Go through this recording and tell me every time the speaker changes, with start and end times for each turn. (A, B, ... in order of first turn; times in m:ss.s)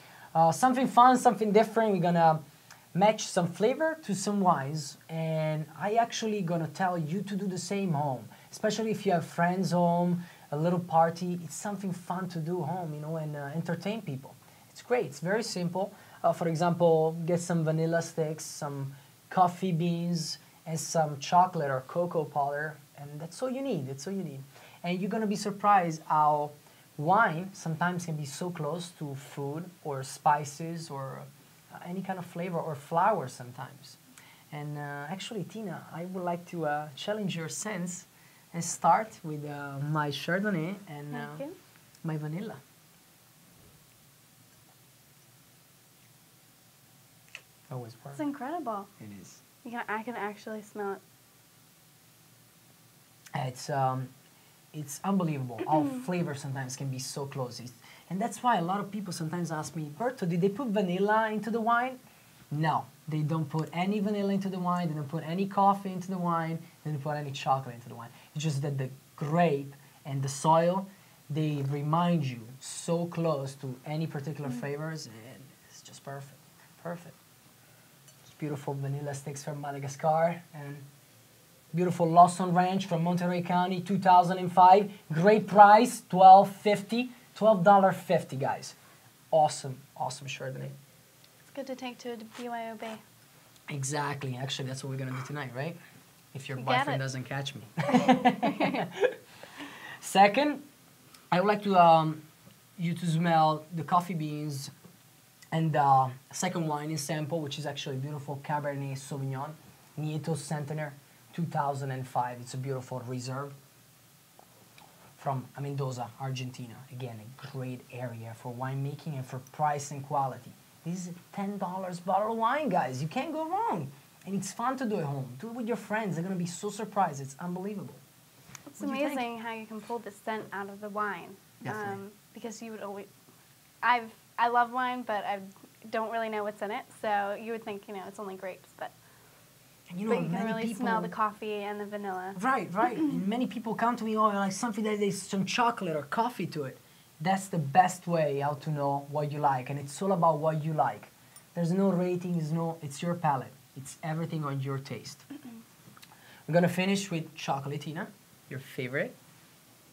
0:00.3-0:02.4 A
0:02.9-0:34.0 A
0:34.5-0:41.4 A
0:41.1-0:41.5 B
0:42.0-0:42.6 A
0:47.7-0:48.2 A
0:48.2-0:48.9 B
0:49.0-0:49.4 A
0:49.6-0:51.0 B
0:53.3-0:54.1 A
0:54.7-1:02.0 A
0:55.6-0:56.0 B
1:02.5-1:17.2 A
1:18.2-1:20.8 A
1:21.7-1:28.8 A
1:29.3-1:30.7 A
1:31.5-1:33.0 B
1:33.7-1:35.8 A
1:36.3-1:39.2 A
1:36.6-1:37.0 B
1:40.0-1:40.6 A
1:41.3-1:42.2 A
1:42.8-1:44.7 A
1:45.5-1:53.5 A
1:55.2-2:08.0 A
2:08.7-2:13.1 B
2:08.8-2:09.3 A
2:11.6-2:12.0 A
2:13.8-2:18.9 B
2:19.9-2:21.1 A
2:20.1-2:22.4 B
2:22.3-2:35.2 A
2:36.5-2:39.2 A